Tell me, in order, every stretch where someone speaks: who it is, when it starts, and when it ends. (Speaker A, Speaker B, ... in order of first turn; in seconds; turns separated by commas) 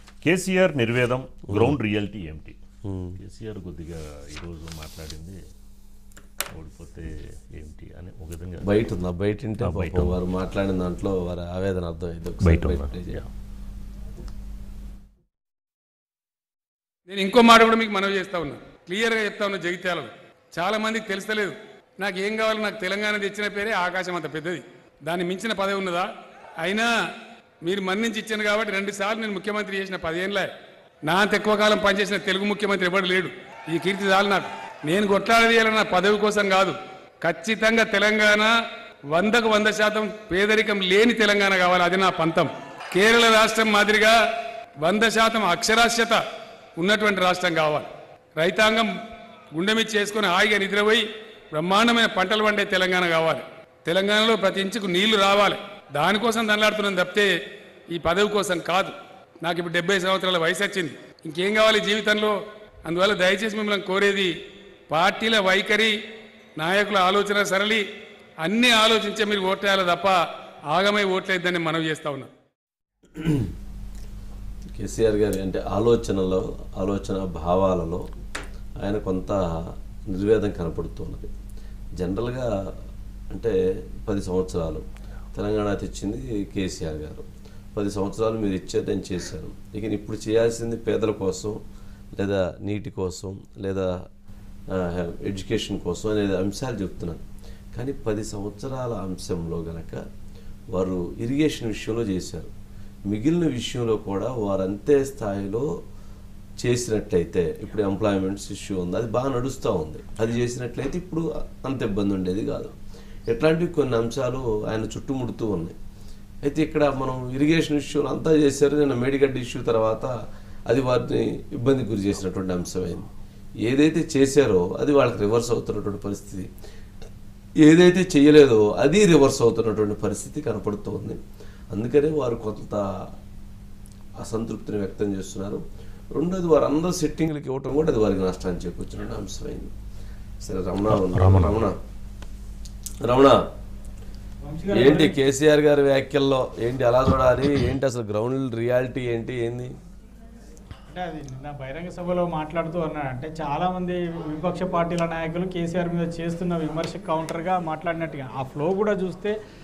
Speaker A: 0.2-2.6, Speaker B: 2.9-3.2, Speaker A: 3.2-5.4, Speaker A: 6.5-8.7, Speaker B: 8.6-13.2, Speaker A: 9.6-10.2, Speaker A: 12.4-13.3, Speaker C: 17.1-26.1, Speaker C: 26.6-26.9, Speaker C: 27.6-30.5, Speaker C: 31.1-38.5, Speaker C: 39.1-44.1, Speaker C: 44.8-46.2, Speaker C: 46.8-48.9, Speaker C: 49.5-57.3, Speaker C: 57.9-64.3, Speaker C: 64.9-65.9, Speaker C: 66.6-67.8, Speaker C: 68.4-70.1, Speaker C: 70.7-72.3, Speaker B: 73.2-73.5, Speaker B: 74.8-78.0, Speaker B: 78.8-81.3, Speaker B: 82.0-82.5, Speaker B: 83.3-91.6, Speaker B: 92.2-93.9, Speaker B: 94.7-100.0, Speaker B: 100.7-102.5, Speaker B: 103.1-105.7, Speaker B: 106.6-112.7, Speaker B: 113.3-115.8, Speaker B: 116.4-120.1, Speaker B: 120.7-123.1, Speaker B: 123.6-126.5, Speaker B: 127.6-131.2, Speaker B: 131.7-132.9, Speaker B: 134.2-139.7, Speaker B: 140.4-141.8, Speaker A: 141.2-141.6, Speaker B: 143.0-143.4, Speaker D: 144.4-145.1, Speaker B: 144.7-149.7, Speaker D: 150.9-159.3